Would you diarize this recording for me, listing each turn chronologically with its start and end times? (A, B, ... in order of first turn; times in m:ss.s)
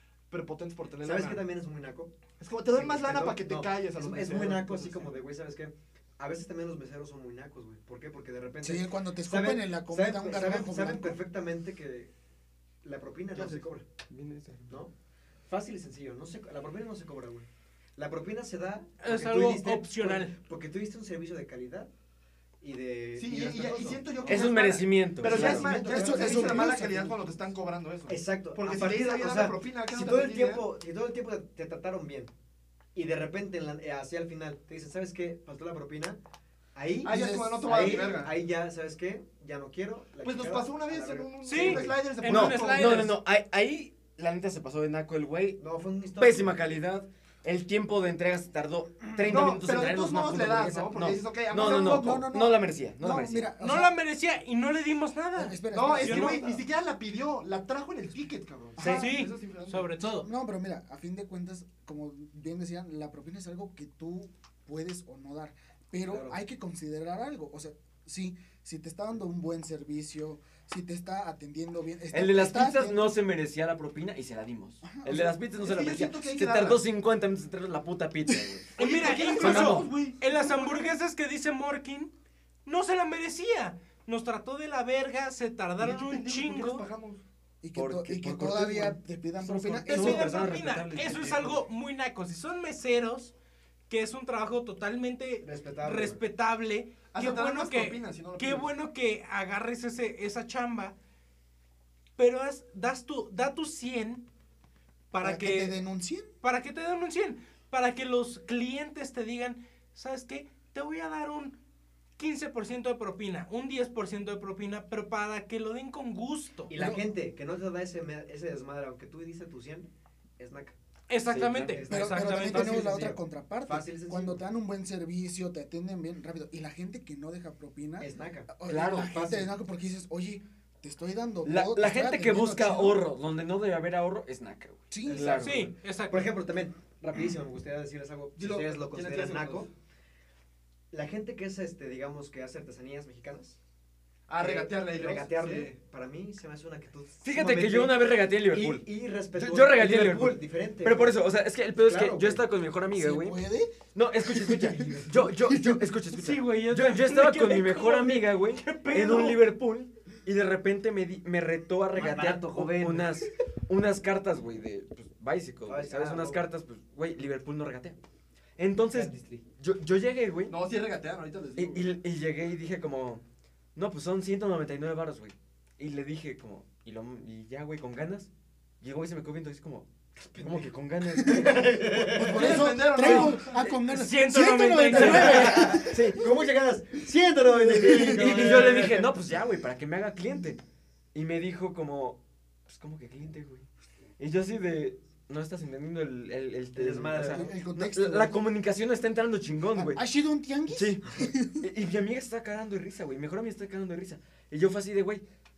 0:00.3-0:01.4 A
0:01.0-0:02.1 B
0:02.4-0:05.2 A
0:02.7-0:12.1 B
0:08.6-0:11.2 C
0:12.8-0:13.8 B
0:13.4-0:13.7 A
0:14.1-0:14.8 D
0:15.5-0:21.9 B
0:19.0-0:20.3 E
0:22.6-0:24.5 B
0:23.2-0:30.6 A
0:24.3-0:25.7 D
0:25.2-0:26.8 B
0:25.3-0:27.4 C
0:28.1-0:32.3 B
0:32.9-0:36.2 B
0:36.7-0:42.0 B
0:37.0-0:38.1 C
0:37.0-0:38.3 A
0:40.2-0:43.1 A
0:41.4-0:43.1 E
0:42.2-0:45.6 D
0:45.6-0:46.6 B
0:46.2-0:53.5 D
0:49.2-0:52.3 A
0:51.6-0:53.9 C
0:53.6-0:56.4 E
0:55.4-0:56.6 C
0:55.7-0:59.9 A
0:58.8-0:59.1 C
0:58.8-1:00.3 E
1:00.0-1:13.2 C
1:06.1-1:06.4 B
1:12.1-1:18.8 D
1:14.8-1:15.3 C
1:15.6-1:16.8 A
1:18.8-1:22.1 E
1:18.8-1:21.0 A
1:19.4-1:19.9 D
1:19.4-1:19.7 C
1:22.6-1:26.8 E
1:25.8-1:27.2 A
1:27.6-1:30.3 C
1:27.7-1:31.6 D
1:29.9-1:33.3 E
1:33.9-1:40.9 E
1:35.4-1:36.2 B
1:37.1-1:38.7 A
1:42.2-1:44.2 E
1:45.1-1:45.7 E
1:45.2-1:46.3 C
1:46.4-1:51.5 E
1:52.2-1:56.7 E
1:56.7-2:00.8 B
1:56.7-1:57.0 C
2:01.1-2:03.0 E
2:01.3-2:01.8 D
2:01.5-2:04.4 B
2:01.9-2:13.0 C
2:08.0-2:08.5 B
2:08.7-2:09.3 D
2:09.1-2:09.5 B
2:11.4-2:15.6 D
2:14.9-2:15.4 C
2:15.0-2:19.7 B
2:15.4-2:16.3 E
2:18.4-2:19.7 A
2:20.9-2:23.6 B
2:24.3-2:25.7 A
2:24.4-2:31.2 B
2:27.2-2:33.4 D
2:31.8-2:32.4 B
2:32.9-2:35.9 C
2:33.9-2:48.0 D
2:34.8-2:35.1 B
2:36.1-2:39.4 E
2:41.9-2:43.2 B
2:45.7-2:46.5 B
2:48.6-2:50.6 D
2:48.9-2:49.4 B
2:50.5-2:51.9 A
2:51.6-2:53.2 D
2:53.8-2:58.3 D
2:58.8-2:59.9 D
3:00.2-3:02.7 B
3:00.4-3:03.3 D
3:02.1-3:06.1 C
3:02.2-3:03.5 A
3:03.8-3:05.8 E
3:04.9-3:06.2 D
3:05.0-3:09.1 B
3:07.5-3:08.6 C
3:07.9-3:10.6 D
3:11.1-3:13.6 D
3:14.2-3:20.0 D
3:16.7-3:17.5 B
3:17.2-3:18.5 C
3:19.7-3:21.7 C
3:20.7-3:25.2 D